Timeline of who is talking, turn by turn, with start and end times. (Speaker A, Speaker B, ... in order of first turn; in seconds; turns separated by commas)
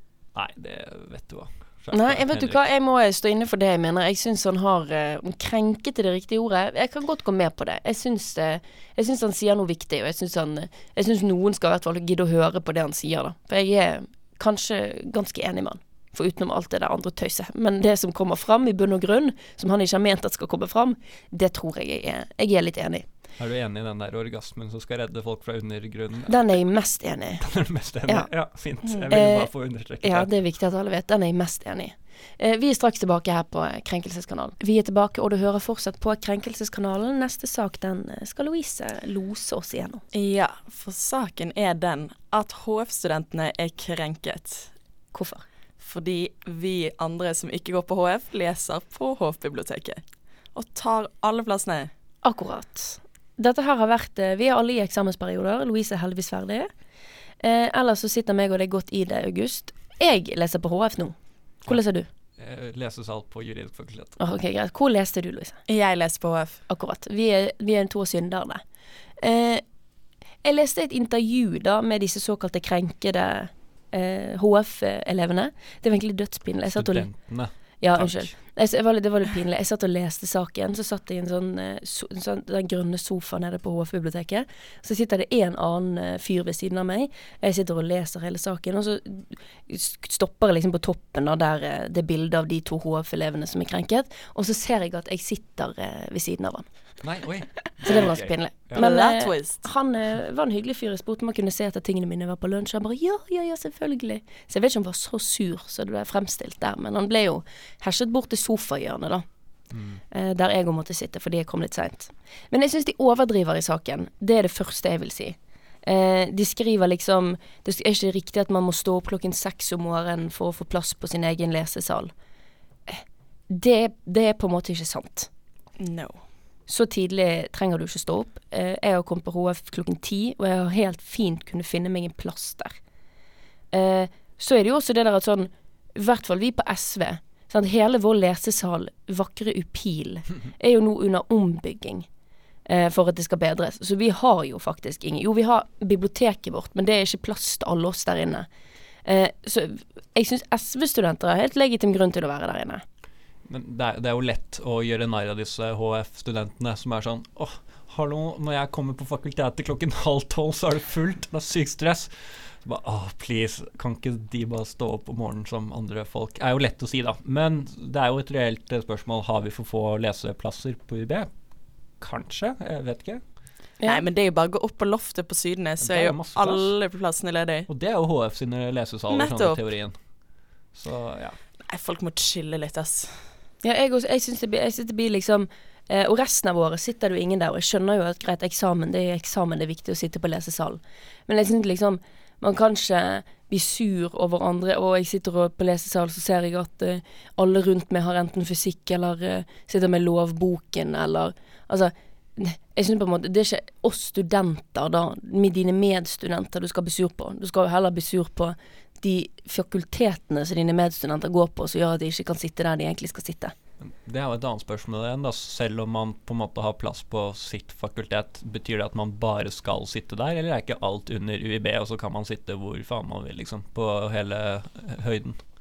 Speaker A: 0.3-2.7, Speaker B: 1.9-23.1, Speaker A: 23.4-26.4, Speaker B: 26.3-27.4, Speaker A: 27.4-30.3, Speaker C: 28.8-29.1, Speaker B: 29.1-29.5, Speaker B: 30.0-40.0, Speaker C: 40.1-44.7, Speaker B: 45.1-45.4, Speaker C: 45.8-50.0, Speaker C: 50.5-51.9, Speaker B: 52.2-56.7, Speaker B: 57.4-62.1, Speaker A: 62.4-64.2, Speaker B: 64.2-65.6, Speaker C: 65.7-66.6, Speaker B: 66.7-68.6, Speaker B: 69.2-69.6, Speaker B: 70.4-96.7, Speaker A: 76.7-78.3, Speaker A: 97.0-98.9, Speaker B: 97.8-109.2, Speaker C: 98.7-99.7, Speaker A: 109.7-110.0, Speaker B: 110.1-122.1, Speaker B: 122.9-125.3, Speaker C: 125.8-126.2, Speaker B: 126.7-132.8, Speaker B: 133.7-142.1, Speaker B: 142.7-148.5, Speaker B: 149.0-152.8, Speaker A: 153.4-171.3, Speaker A: 172.0-173.2, Speaker C: 173.8-177.7, Speaker A: 175.8-176.7, Speaker A: 177.7-179.9, Speaker C: 179.1-179.6, Speaker A: 180.7-181.4, Speaker C: 181.6-183.3, Speaker B: 183.6-213.5, Speaker A: 213.8-225.4